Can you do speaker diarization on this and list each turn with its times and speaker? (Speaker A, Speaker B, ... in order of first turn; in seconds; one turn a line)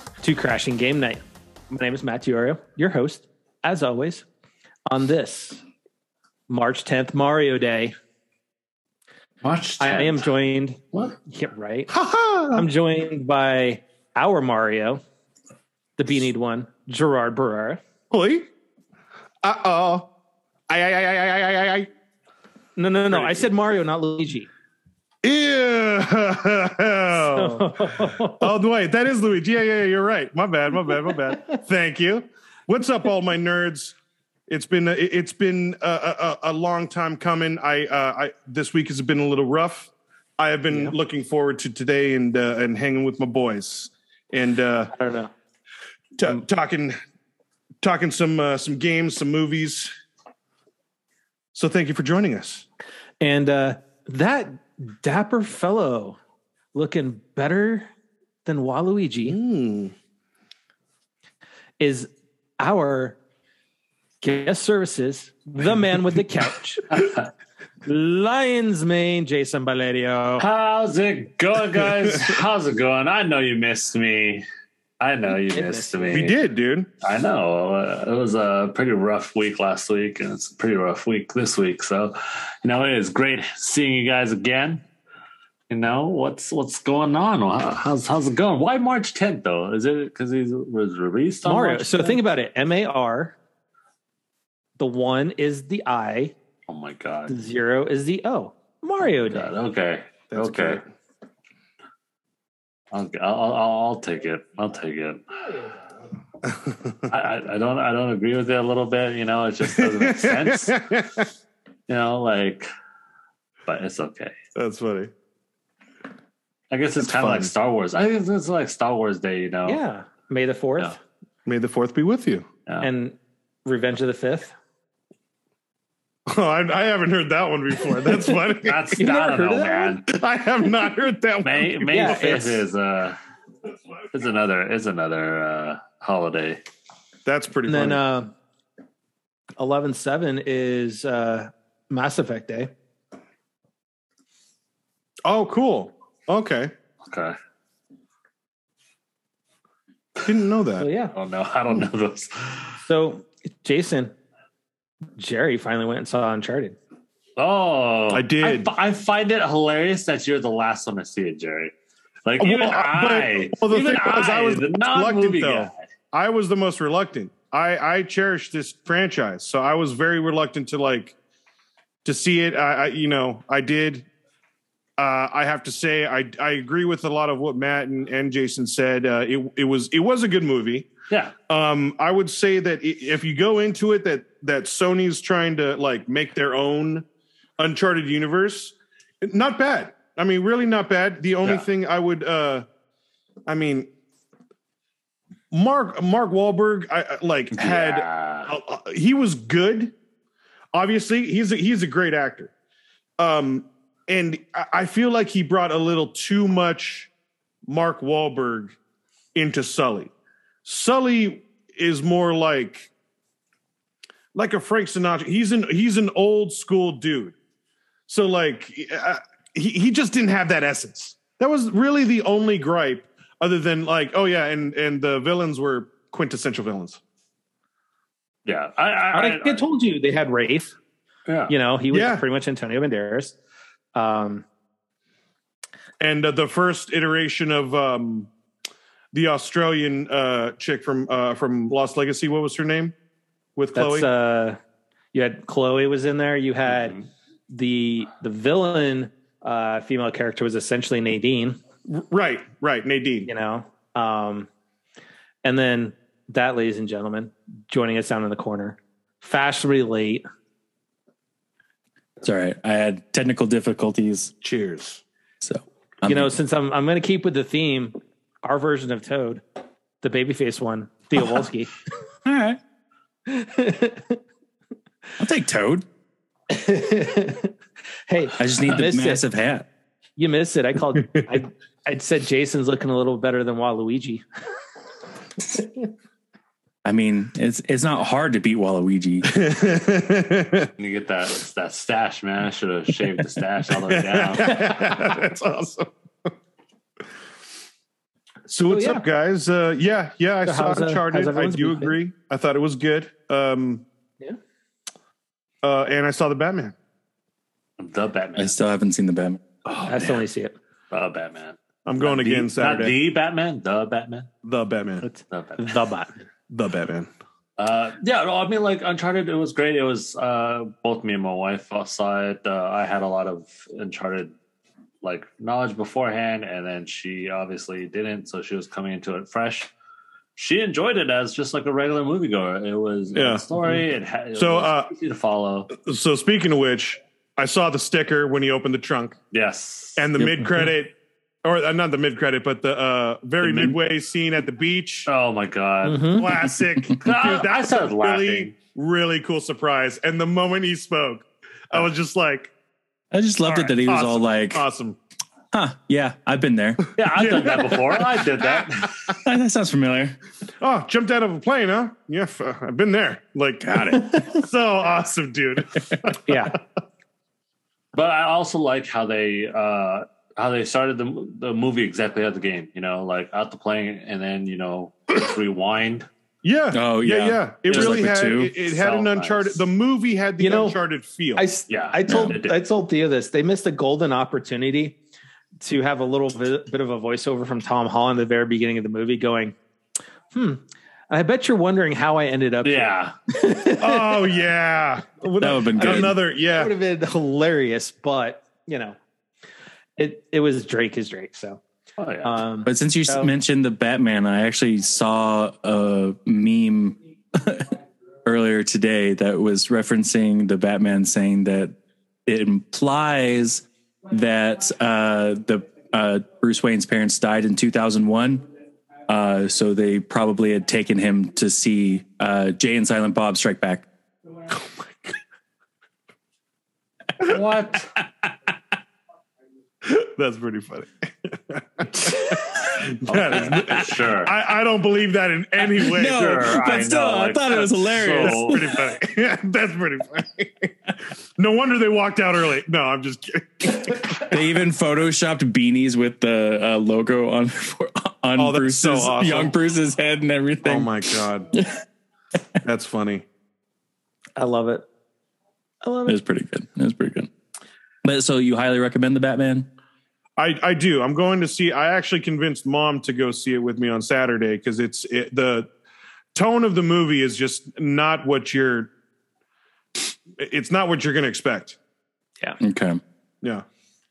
Speaker A: 0.2-4.2
Speaker A: 4.9-5.6
Speaker A: 6.5-7.9
Speaker B: 9.4-10.3
Speaker A: 9.8-11.9
Speaker C: 11.9-12.7
Speaker A: 12.5-15.0
Speaker A: 16.0-17.8
Speaker C: 18.1-18.5
Speaker C: 19.4-20.1
Speaker C: 20.7-21.9
Speaker A: 22.8-24.5
Speaker C: 23.1-23.5
Speaker C: 25.2-34.0
Speaker A: 27.1-28.6
Speaker C: 34.5-44.9
Speaker A: 40.7-41.0
Speaker A: 44.9-45.3
Speaker C: 46.2-47.0
Speaker C: 47.8-49.9
Speaker C: 51.5-52.6
Speaker A: 53.2-56.2
Speaker A: 56.7-57.9
Speaker A: 58.5-59.4
Speaker C: 59.3-59.9
Speaker A: 61.8-63.2
Speaker A: 64.2-67.0
Speaker B: 66.9-67.2
Speaker A: 67.9-70.5
Speaker B: 70.4-74.4
Speaker B: 75.0-76.4
Speaker A: 75.5-76.0
Speaker C: 76.1-76.9
Speaker B: 77.0-84.8
Speaker B: 85.7-92.2
Speaker A: 91.5-93.4
Speaker A: 94.8-96.3
Speaker B: 96.7-97.3
Speaker A: 97.3-99.5
Speaker B: 99.0-100.8
Speaker C: 100.3-100.8
Speaker B: 102.9-105.2
Speaker B: 107.1-110.8
Speaker C: 109.8-111.2
Speaker B: 111.9-112.7
Speaker B: 113.7-114.3
Speaker C: 114.5-115.1
Speaker B: 116.7-119.8
Speaker C: 117.0-117.5
Speaker A: 119.7-121.0
Speaker C: 121.5-122.5
Speaker A: 122.8-124.5
Speaker C: 126.3-128.9
Speaker B: 128.6-130.1
Speaker A: 129.0-130.0
Speaker C: 130.1-132.5
Speaker B: 131.4-133.2
Speaker A: 131.9-132.6
Speaker B: 134.1-136.6
Speaker C: 137.3-138.0
Speaker A: 137.7-138.3
Speaker A: 139.6-142.7
Speaker C: 145.2-146.7
Speaker B: 147.0-147.3
Speaker C: 150.2-150.9
Speaker A: 150.8-151.1
Speaker B: 151.2-152.8
Speaker A: 152.9-154.1
Speaker A: 155.2-156.8
Speaker B: 157.4-161.7
Speaker C: 158.1-158.7
Speaker B: 162.2-165.8
Speaker C: 162.4-171.2
Speaker C: 172.1-174.1
Speaker C: 175.0-180.9
Speaker C: 181.5-187.1
Speaker C: 187.6-192.7
Speaker C: 193.5-193.9
Speaker C: 195.5-199.9
Speaker B: 197.5-198.5
Speaker C: 200.7-202.5
Speaker C: 203.2-207.1
Speaker C: 207.7-208.7
Speaker C: 209.3-210.1
Speaker C: 210.7-212.9
Speaker C: 214.3-217.3
Speaker C: 218.1-227.0
Speaker B: 228.4-229.6
Speaker A: 229.1-230.8
Speaker B: 231.3-231.5
Speaker A: 231.5-233.4
Speaker C: 231.9-232.2
Speaker A: 233.9-234.4
Speaker C: 236.0-238.3
Speaker C: 239.1-242.9
Speaker C: 243.6-244.1
Speaker A: 243.8-244.6
Speaker A: 245.1-247.0
Speaker B: 246.7-247.0
Speaker A: 247.5-251.6
Speaker C: 251.9-253.3
Speaker A: 253.2-254.5
Speaker A: 255.4-260.2
Speaker D: 262.2-264.3
Speaker C: 264.4-265.0
Speaker D: 265.4-266.3
Speaker A: 266.0-269.4
Speaker A: 270.0-271.7
Speaker D: 272.2-272.6
Speaker A: 273.3-274.2
Speaker D: 275.2-275.9
Speaker A: 276.5-277.5
Speaker A: 278.1-279.2
Speaker D: 278.4-279.7
Speaker A: 280.2-284.2
Speaker D: 286.8-289.3
Speaker C: 289.3-290.7
Speaker B: 290.8-294.8
Speaker C: 293.9-296.3
Speaker C: 298.5-303.8
Speaker A: 298.7-299.0
Speaker A: 300.4-302.0
Speaker C: 305.6-306.8
Speaker B: 307.8-308.6
Speaker D: 308.4-309.4
Speaker A: 309.7-310.6
Speaker B: 310.9-314.3
Speaker C: 311.9-313.0
Speaker C: 314.4-315.1
Speaker B: 315.1-315.8
Speaker A: 315.6-316.2
Speaker C: 316.5-317.1
Speaker B: 317.6-324.3
Speaker B: 325.0-329.7
Speaker B: 330.4-335.7
Speaker C: 333.1-333.8
Speaker C: 334.4-334.9
Speaker C: 335.7-339.2
Speaker B: 339.3-340.4
Speaker C: 340.0-345.1
Speaker B: 343.4-343.8
Speaker B: 345.1-346.3
Speaker A: 345.8-346.3
Speaker C: 346.1-352.5
Speaker B: 347.0-348.5
Speaker D: 353.1-354.6
Speaker C: 353.5-355.0
Speaker D: 355.5-356.8
Speaker B: 357.0-359.1
Speaker C: 357.1-358.6
Speaker D: 359.2-360.2
Speaker C: 360.6-366.2
Speaker A: 366.2-366.6
Speaker B: 367.9-376.1
Speaker C: 376.4-381.5
Speaker D: 376.7-378.5
Speaker B: 377.7-379.6
Speaker A: 380.4-380.8
Speaker A: 381.4-385.0
Speaker B: 381.7-382.6
Speaker D: 382.1-382.4
Speaker A: 385.6-389.6
Speaker A: 390.3-394.2
Speaker B: 392.6-393.1
Speaker C: 393.8-396.7
Speaker D: 395.4-396.2
Speaker A: 395.8-399.0
Speaker A: 400.0-401.6
Speaker B: 402.0-402.4
Speaker A: 402.2-403.3
Speaker D: 402.7-407.7
Speaker D: 408.2-411.7
Speaker D: 412.3-418.4
Speaker D: 419.1-423.9
Speaker C: 424.5-425.2
Speaker B: 427.2-428.0
Speaker C: 429.8-436.3
Speaker B: 433.1-434.3
Speaker D: 435.8-438.7
Speaker B: 435.9-438.8
Speaker C: 438.2-440.7
Speaker C: 441.4-444.4
Speaker D: 444.2-451.8
Speaker C: 448.4-449.6
Speaker C: 450.6-451.5
Speaker C: 452.6-453.2
Speaker A: 454.4-454.9
Speaker A: 455.8-456.2
Speaker D: 456.1-457.3
Speaker D: 458.0-459.7
Speaker C: 460.4-465.7
Speaker C: 466.3-468.9
Speaker C: 470.4-471.8
Speaker D: 472.6-473.0